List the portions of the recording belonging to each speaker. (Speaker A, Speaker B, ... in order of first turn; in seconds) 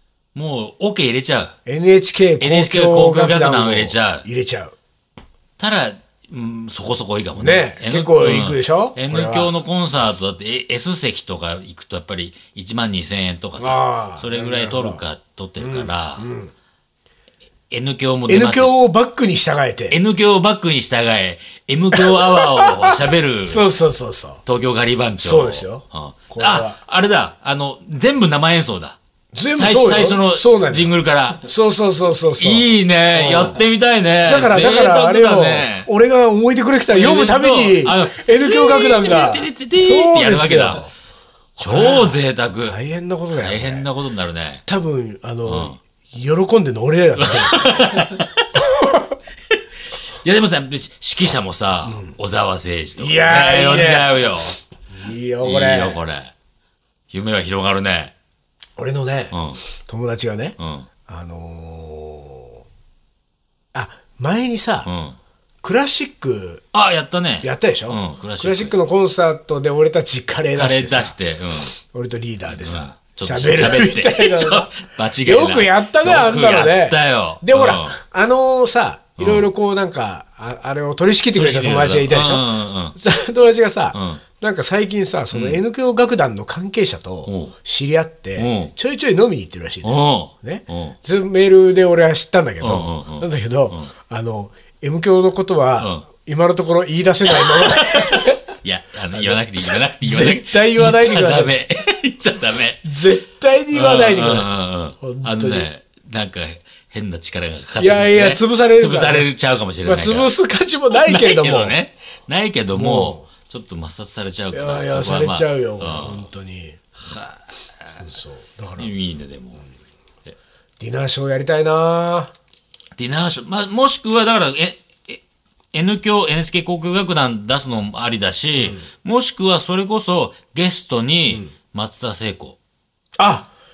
Speaker A: 0.3-1.6, 2.4-4.2, 5.6-16.3, 17.7-18.7, 19.9-23.6, 24.4-29.0, 29.5-31.4, 32.4-35.9, 36.9-40.9, 41.6-42.8, 43.3-44.6, 45.5-45.8, 47.2-48.4, 50.2-54.6, 55.4-56.3, 57.1-58.1, 59.3-59.6, 60.6-60.9, 64.8-65.2, 66.7-68.7, 70.5-71.7, 72.5-78.0, 79.2-79.5, 81.3-83.0, 83.9-84.2, 85.3-85.6, 87.2-87.5, 88.3-88.7, 89.8-91.0, 92.6-93.9, 95.8-96.0, 97.3-102.8, 103.7-110.3, 110.9-116.3, 117.0-118.0, 118.8-119.6, 123.0-125.2, 125.7-132.6
Speaker B: 1.6-4.7, 7.4-9.5, 13.6-15.0, 15.6-16.5, 18.3-20.0, 21.9-24.4, 25.2-26.8, 29.3-33.6, 34.2-40.9, 41.6-43.9, 44.6-49.1, 51.8-52.1, 53.0-54.2, 54.9-56.0, 58.8-60.5, 61.1-62.6, 63.7-64.9, 65.6-66.6, 67.4-71.1, 71.8-98.4, 99.1-101.5, 102.8-105.7, 107.8-109.3, 109.8-111.8, 112.7-113.3, 114.5-116.8, 118.0-118.9, 120.8-122.3, 128.6-128.8, 133.2-133.5